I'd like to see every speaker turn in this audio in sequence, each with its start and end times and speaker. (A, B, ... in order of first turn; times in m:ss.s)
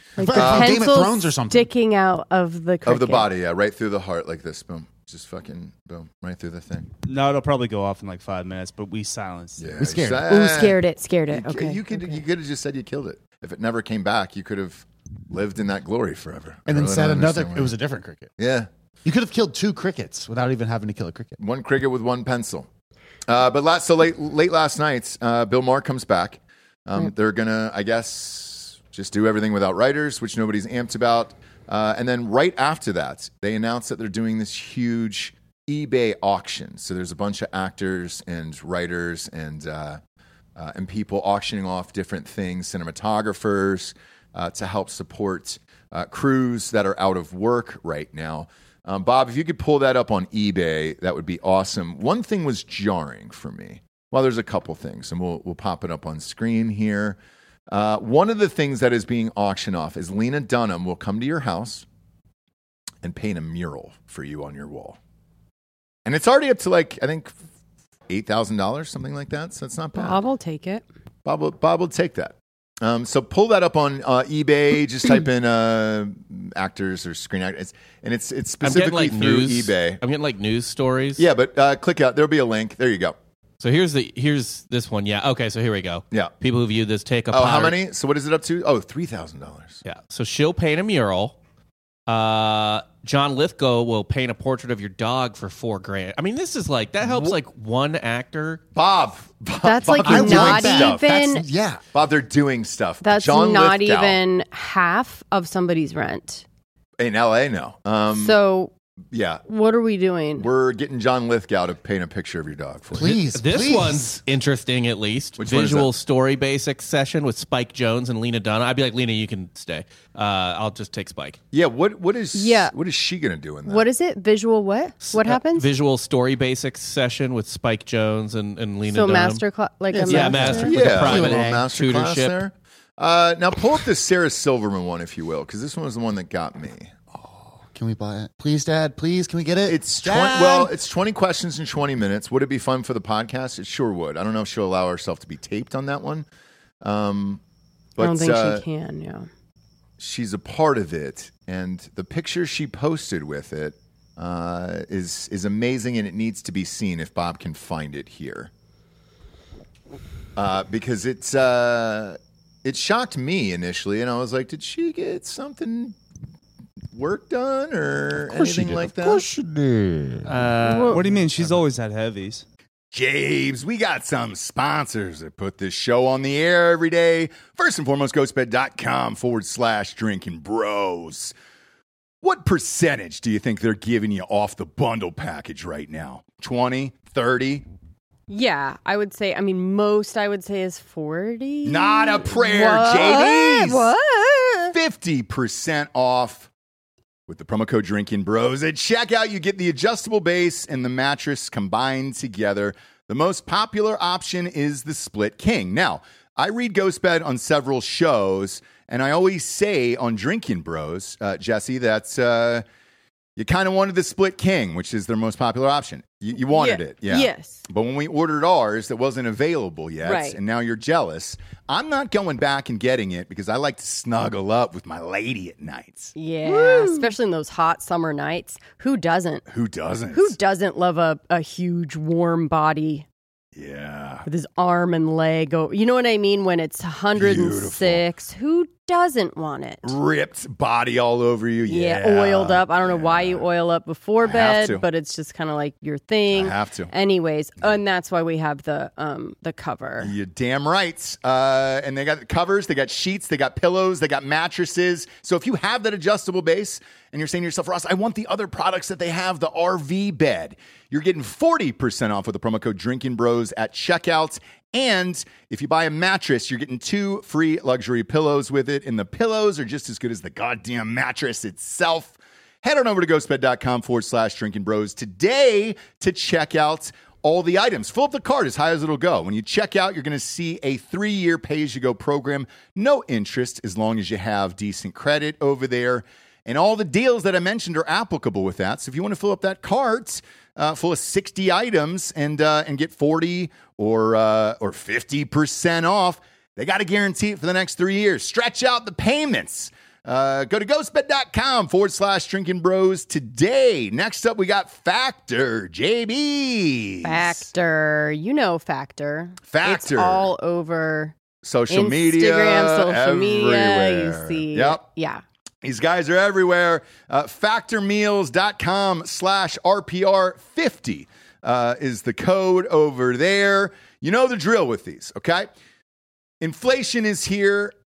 0:00.2-0:03.3 A
0:00.2-0:01.7 B
0:00.3-0:00.8 C
0:02.8-0:06.9 C
0:07.0-0:09.7 D
0:09.6-0:10.8 C
0:09.8-0:10.5 B
0:10.2-0:12.2 A
0:11.3-0:17.7 C
0:16.7-0:18.3 B
0:18.4-0:18.7 C
0:19.0-0:21.4 B
0:21.4-0:22.7 C
0:23.3-0:40.0 C
0:40.6-0:57.2 C
0:57.7-1:01.8 C
1:03.0-1:05.0 C
1:06.0-1:07.3 C
1:08.1-1:10.2 C
1:09.9-1:10.8 A
1:11.2-1:20.0 C
1:18.6-1:21.2 E
1:21.2-1:23.2 C
1:23.6-1:27.8 E
1:27.3-1:29.8 C
1:29.8-1:31.4 E
1:32.1-1:38.6 E
1:37.0-1:37.3 C
1:38.7-1:41.1 C
1:39.6-1:41.4 A
1:40.0-1:41.8 B
1:41.9-1:44.2 C
1:43.0-1:46.4 A
1:47.0-1:48.4 C
1:48.1-1:48.7 A
1:49.1-1:49.4 C
1:49.5-1:50.5 A
1:50.4-1:53.2 C
1:52.9-1:54.2 B
1:53.3-2:01.4 E
1:55.4-1:55.9 C
2:01.5-2:03.9 C
2:02.3-2:02.7 A
2:03.6-2:05.7 A
2:05.0-2:09.4 E
2:08.9-2:10.8 A
2:09.9-2:11.6 B
2:10.1-2:12.4 E
2:10.5-2:17.0 C
2:17.1-2:20.7 B
2:19.7-2:26.2 C
2:26.8-2:27.4 C
2:28.0-2:28.6 C
2:28.0-2:29.3 A
2:30.0-2:38.5 C
2:40.4-2:46.0 C
2:46.9-2:49.2 C
2:48.2-2:50.3 B
2:50.3-2:52.4 D
2:50.6-2:51.0 A
2:52.9-3:01.3 C
3:02.2-3:07.6 C
3:08.3-3:14.7 A
3:11.6-3:13.9 C
3:14.7-3:16.5 C
3:17.3-3:32.6 C
3:33.4-3:47.1 C
3:36.5-3:37.6 A
3:40.0-3:40.4 A
3:46.2-3:49.4 A
3:49.5-3:50.3 C
3:50.1-3:53.0 A
3:53.5-3:54.2 C
3:54.2-3:59.9 A
3:57.2-3:58.0 C
3:59.8-4:03.5 C
4:01.7-4:10.1 A
4:04.2-4:04.8 C
4:06.3-4:06.9 C
4:10.0-5:07.4 C
5:07.0-5:11.1 A
5:09.5-5:10.3 C
5:11.4-5:14.8 C
5:11.7-5:15.2 A
5:15.6-5:25.5 C
5:26.4-5:27.7 C